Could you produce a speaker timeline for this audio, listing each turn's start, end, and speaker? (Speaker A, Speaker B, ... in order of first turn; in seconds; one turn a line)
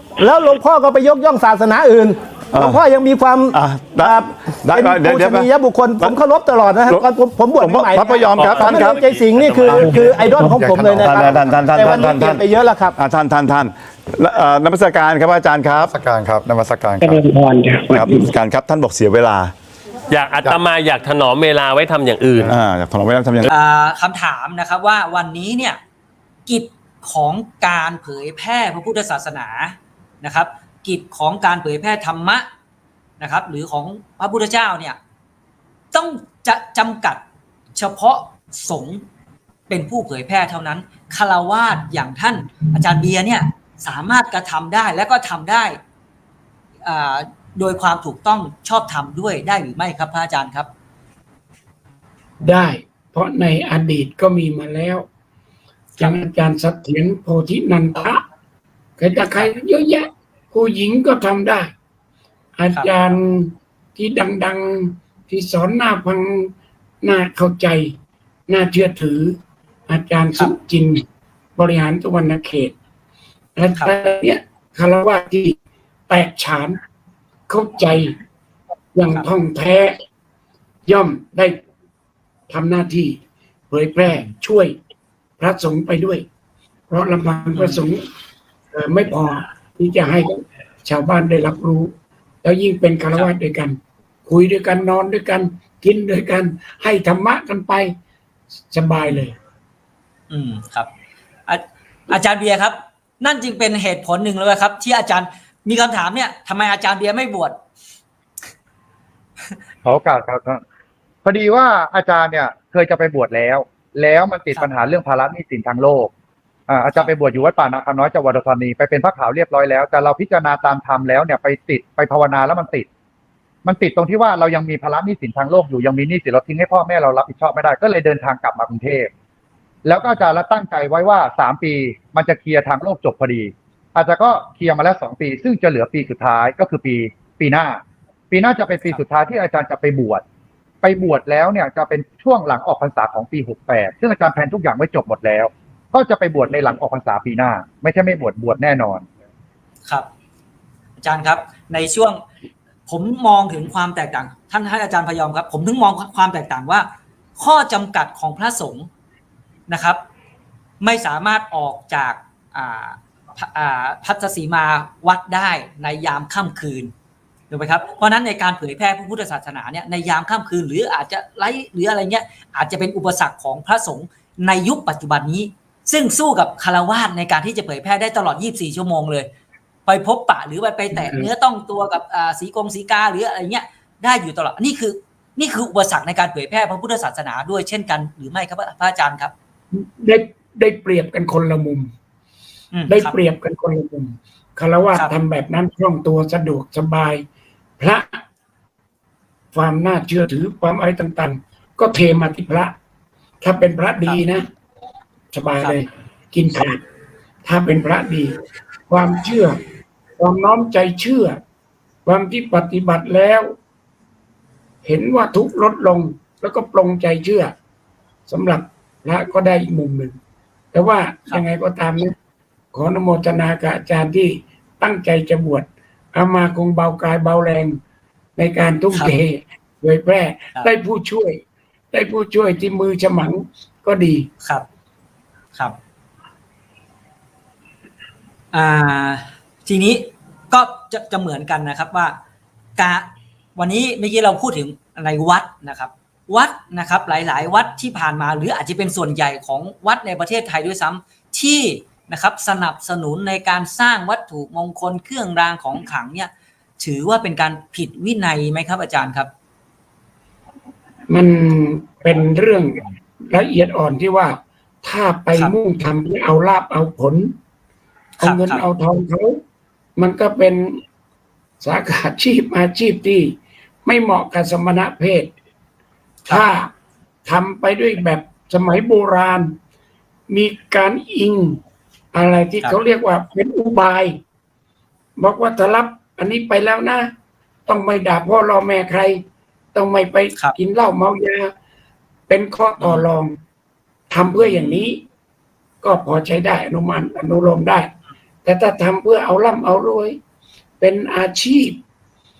Speaker A: 0.2-13.0
Speaker B: 2.5-2.8
Speaker B: 3.5-5.5
Speaker B: 7.6-9.0
Speaker C: 8.3-9.9
Speaker D: 8.4-8.8
Speaker D: 9.7-11.7
Speaker E: 9.7-10.1
Speaker B: 11.0-15.9
Speaker D: 15.9-17.2
Speaker E: 17.0-18.3
Speaker B: 17.9-19.5
Speaker C: 20.1-22.5
Speaker B: 22.4-23.5
Speaker F: 23.5-25.8
Speaker F: 26.4-32.5
Speaker F: 33.2-35.0
Speaker F: 35.9-37.2
Speaker F: 37.7-39.0
Speaker F: 39.7-45.8
Speaker F: 46.8-50.7
Speaker E: 52.4-55.0
Speaker E: 56.0-58.2
Speaker E: 59.0-61.7
Speaker E: 62.5-66.5
Speaker E: 67.0-67.9
Speaker E: 68.5-69.4
Speaker E: 69.9-71.0
Speaker E: 71.5-72.7
Speaker E: 73.5-75.5
Speaker E: 76.1-76.8
Speaker E: 77.5-78.1
Speaker E: 78.9-80.0
Speaker E: 80.8-81.6
Speaker E: 82.5-83.2
Speaker E: 83.7-84.7
Speaker E: 85.4-86.2
Speaker E: 86.9-88.0
Speaker F: 87.5-87.8
Speaker E: 88.7-97.9
Speaker E: 98.7-99.3
Speaker F: 100.3-100.9
Speaker F: 101.5-107.6
Speaker D: 109.8-110.6
Speaker D: 111.2-116.1
Speaker D: 116.7-122.9
Speaker D: 123.6-129.1
Speaker D: 129.8-140.2
Speaker D: 140.8-149.0
Speaker F: 151.0-152.2
Speaker F: 152.9-158.9
Speaker F: 159.7-160.0
Speaker F: 160.8-166.9
Speaker F: 167.5-179.3
Speaker F: 179.9-189.3
Speaker E: 180.9-181.3
Speaker E: 189.7-191.9
Speaker F: 192.7-193.1
Speaker E: 192.9-197.2
Speaker E: 197.8-198.2
Speaker E: 199.5-202.7
Speaker E: 203.4-204.4
Speaker E: 205.3-206.8
Speaker E: 207.4-208.3
Speaker E: 208.9-209.6
Speaker E: 210.2-211.4
Speaker E: 212.0-213.5
Speaker E: 214.8-217.5
Speaker E: 218.3-220.2
Speaker E: 220.7-222.1
Speaker E: 222.7-227.8
Speaker E: 228.4-231.4
Speaker E: 231.9-234.3
Speaker F: 238.5-242.2
Speaker F: 242.8-259.3
Speaker E: 261.1-267.3
Speaker E: 268.2-269.4
Speaker F: 268.2-268.6
Speaker E: 270.0-270.8
Speaker E: 271.6-275.3
Speaker E: 276.3-276.7
Speaker E: 277.2-279.5
Speaker E: 280.3-281.6
Speaker E: 282.1-284.2
Speaker E: 285.2-287.1
Speaker E: 287.6-289.2
Speaker E: 289.7-291.5
Speaker E: 292.3-293.4
Speaker E: 294.1-295.0
Speaker E: 295.8-297.9
Speaker E: 298.4-300.2
Speaker E: 300.8-301.8